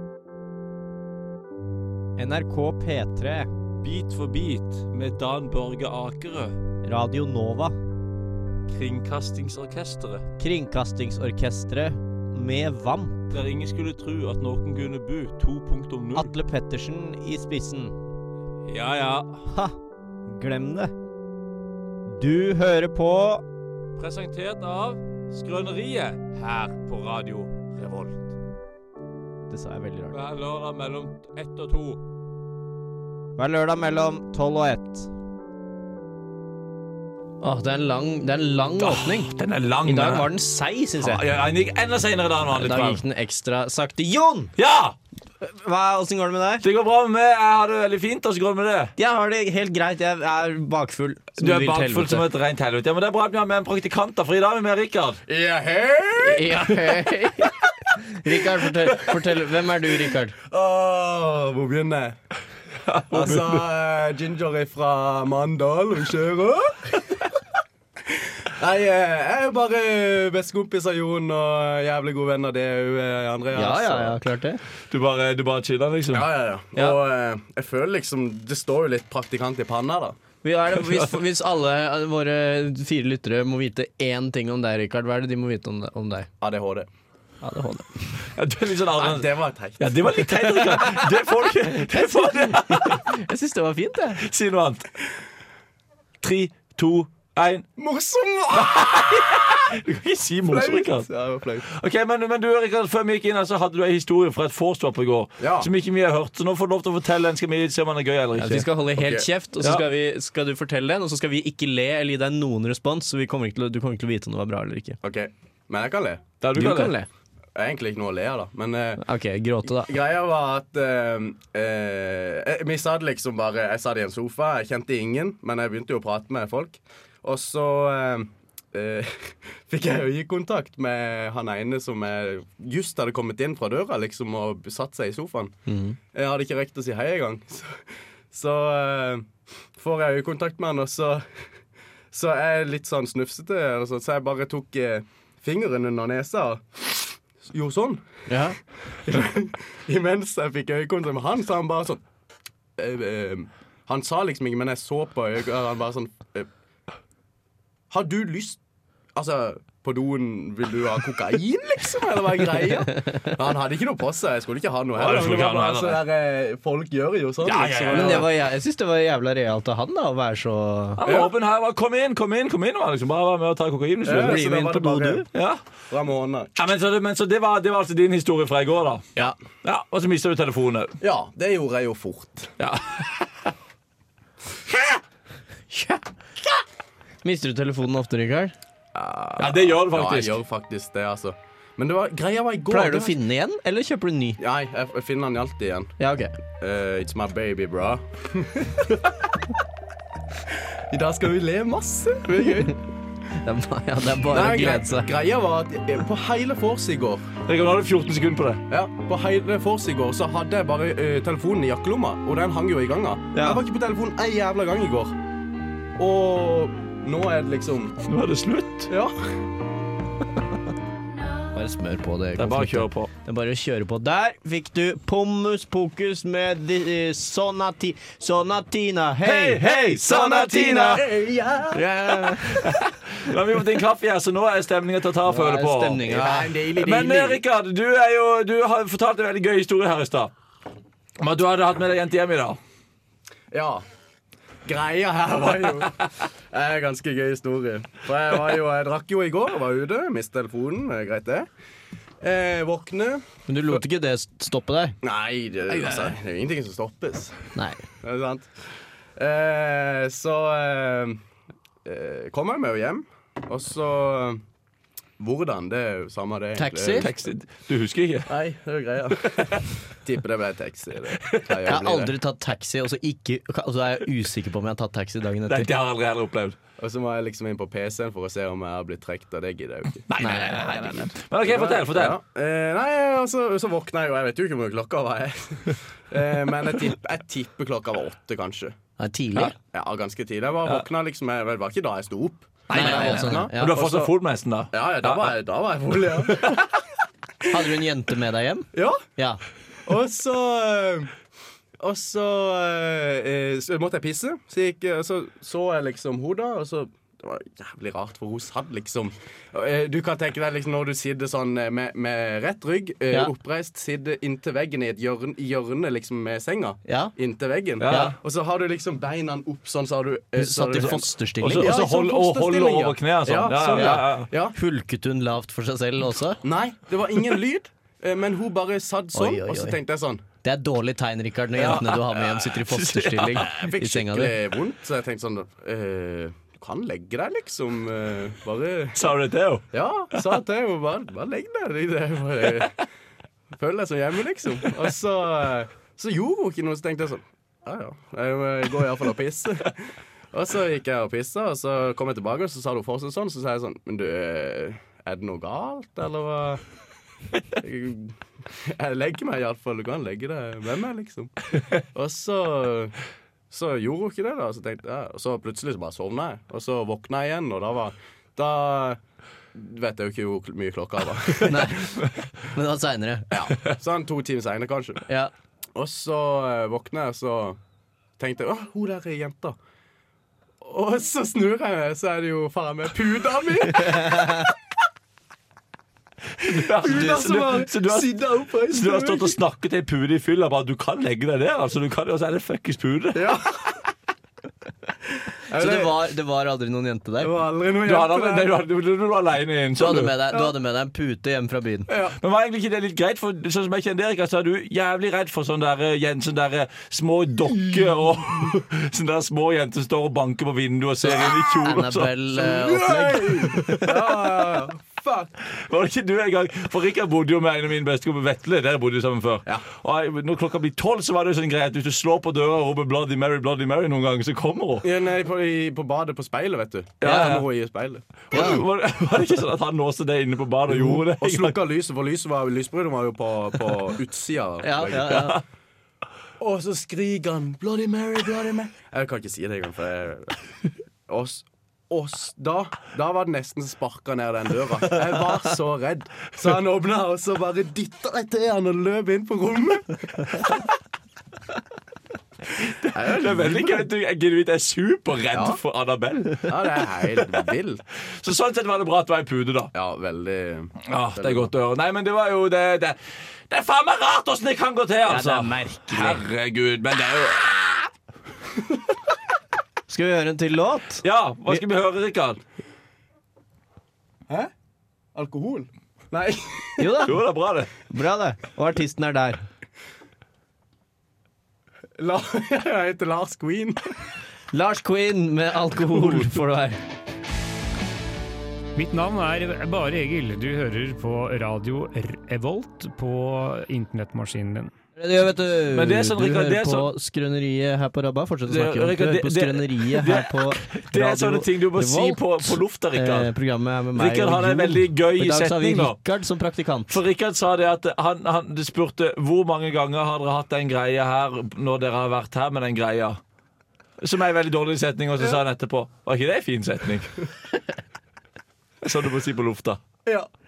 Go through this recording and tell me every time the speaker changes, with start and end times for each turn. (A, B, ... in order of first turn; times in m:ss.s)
0:02.2-0:03.5 A
0:03.8-0:06.6 B
0:06.8-0:07.8 A
0:08.7-0:10.3 B
0:10.4-0:13.3 A
0:13.3-0:16.3 B
0:16.1-0:18.0 A
0:18.6-0:19.5 B
0:19.5-0:19.8 A
0:20.3-0:20.9 A
0:22.1-0:23.4 A
0:24.0-0:28.3 B
0:29.5-0:30.2 A
0:30.1-0:32.0 B
0:33.4-0:35.1 A
0:37.4-0:41.2 A
0:38.8-0:40.3 B
0:41.0-0:43.0 B
0:42.5-0:44.5 A
0:44.6-0:45.0 B
0:45.4-0:46.6 A
0:46.6-0:48.9 B
0:49.0-0:52.2 A
0:51.4-0:55.2 B
0:55.3-0:56.6 C
0:56.2-1:00.3 A
1:00.5-1:02.2 C
1:02.9-1:03.6 B
1:03.1-1:07.2 C
1:08.0-1:14.2 C
1:13.6-1:14.6 A
1:14.9-1:16.3 B
1:16.1-1:20.2 C
1:20.4-1:26.3 A
1:26.4-1:26.9 C
1:27.4-1:28.2 A
1:28.2-1:33.1 B
1:29.0-1:30.2 C
1:30.4-1:34.2 A
1:34.2-1:34.9 B
1:36.2-1:37.7 B
1:37.8-1:39.6 C
1:38.5-1:41.1 B
1:40.4-1:41.7 C
1:41.7-1:48.7 B
1:45.4-1:45.7 C
1:48.3-1:55.0 A
1:49.0-1:49.3 C
1:55.0-1:56.2 C
1:56.4-1:57.0 B
1:56.5-1:57.1 A
1:57.6-1:59.0 C
1:59.0-1:59.9 A
1:59.6-2:15.6 C
2:15.7-2:16.0 A
2:16.1-2:21.3 C
2:22.1-2:28.0 C
2:28.3-2:28.6 A
2:29.0-2:32.0 C
2:32.8-2:36.5 C
2:37.9-2:38.6 C
2:39.2-2:48.3 C
2:45.0-2:46.0 B
2:47.4-2:48.3 B
2:47.9-2:51.0 A
2:51.0-2:54.5 B
2:51.0-2:51.3 C
2:54.0-2:55.3 C
2:54.1-2:55.3 A
2:55.3-2:55.6 B
2:55.9-2:56.5 C
2:56.6-2:59.1 B
2:59.6-3:01.0 B
3:01.0-3:02.5 C
3:02.6-3:03.5 B
3:05.7-3:06.0 A
3:07.2-3:08.6 A
3:08.9-3:13.2 C
3:09.4-3:10.4 B
3:12.7-3:14.4 A
3:14.4-3:16.0 C
3:16.0-3:16.3 A
3:16.6-3:19.1 C
3:20.5-3:22.8 C
3:23.4-3:25.1 A
3:24.3-3:27.3 C
3:27.5-3:28.6 B
3:28.7-3:35.1 C
3:33.3-3:33.6 A
3:36.0-3:38.0 C
3:38.0-3:38.9 B
3:38.9-3:39.3 C
3:41.5-3:51.0 A
3:42.4-3:43.1 B
3:49.2-3:51.0 B
3:50.1-3:51.9 C
3:51.7-3:52.9 A
3:52.5-4:00.3 B
3:55.2-3:56.5 A
3:56.1-3:57.4 C
4:01.2-4:02.6 B
4:03.5-4:03.8 C
4:04.7-4:11.5 C
4:12.2-4:13.2 C
4:13.5-4:15.0 A
4:15.0-4:17.4 C
4:17.6-4:17.8 A
4:18.0-4:18.5 C
4:19.2-4:21.2 C
4:21.8-4:24.4 C
4:25.2-4:27.2 C
4:26.6-4:27.1 A
4:27.0-4:28.3 B
4:28.2-4:32.2 C
4:29.2-4:29.6 B
4:31.2-4:31.4 B
4:31.6-4:35.7 A
4:35.5-4:36.6 B
4:36.8-4:40.1 C
4:40.1-4:42.2 B
4:40.2-4:41.1 A
4:41.4-4:48.8 C
4:49.0-4:49.6 A
4:49.6-4:54.1 C
4:52.7-4:55.3 B
4:52.7-4:53.8 A
4:54.7-4:56.6 C
4:56.3-4:56.6 B
4:57.5-4:59.4 A
4:58.7-4:59.0 C
4:59.9-5:01.1 C
5:01.8-5:24.6 C
5:16.9-5:17.1 A
5:17.8-5:18.2 B
5:17.8-5:18.2 A
5:20.4-5:21.8 A
5:21.4-5:24.3 B
5:23.6-5:26.4 A
5:26.4-5:30.2 C
5:29.1-5:29.8 A
5:30.4-5:34.4 A
5:31.6-5:33.7 B
5:33.4-5:39.0 C
5:38.9-5:40.3 B
5:39.7-5:42.7 C
5:43.5-5:56.6 C
5:57.5-6:01.4 C
6:01.9-6:02.9 C
6:03.5-6:09.0 C
6:09.5-6:11.8 C
6:11.4-6:13.4 A
6:13.3-6:15.1 C
6:15.8-6:17.6 C
6:18.2-6:19.6 C
6:20.6-6:24.5 C
6:23.8-6:24.5 A
6:26.4-6:33.4 B
6:26.4-6:29.4 C
6:33.1-6:33.8 C
6:35.3-6:36.0 C
6:35.5-6:37.3 A
6:37.2-6:38.5 C
6:37.8-6:40.1 B
6:39.8-6:41.9 A
6:41.9-6:42.2 C
6:42.2-6:52.2 B
6:51.0-6:53.7 A
6:52.3-6:55.3 C
6:53.5-6:54.6 B
6:55.5-7:04.9 B
7:04.8-7:08.6 C
7:07.0-7:07.4 B
7:07.0-7:07.4 A
7:08.3-7:11.6 B
7:08.3-7:08.6 A
7:10.7-7:15.4 C
7:14.6-7:15.4 A
7:16.4-7:20.4 C
7:21.1-7:30.5 C
7:32.6-7:36.8 B
7:32.9-7:33.9 C
7:35.3-7:35.6 C
7:36.5-7:37.8 C
7:38.1-7:39.7 B
7:39.7-7:41.5 C
7:40.9-7:43.0 B
7:43.5-7:47.9 B
7:45.1-7:46.2 A
7:49.9-7:51.6 A
7:51.0-7:52.4 B
7:55.2-7:57.1 C
7:56.8-7:57.2 A
7:57.0-7:57.7 B
7:57.9-7:59.4 A
8:02.0-8:03.8 C
8:04.5-8:06.8 A
8:05.9-8:06.3 B
8:08.8-8:14.7 D
8:15.0-8:27.0 A
8:15.7-8:16.9 B
8:18.5-8:23.3 B
8:23.9-8:26.0 B
8:26.9-8:33.2 B
8:34.0-8:37.2 B
8:38.8-8:39.8 B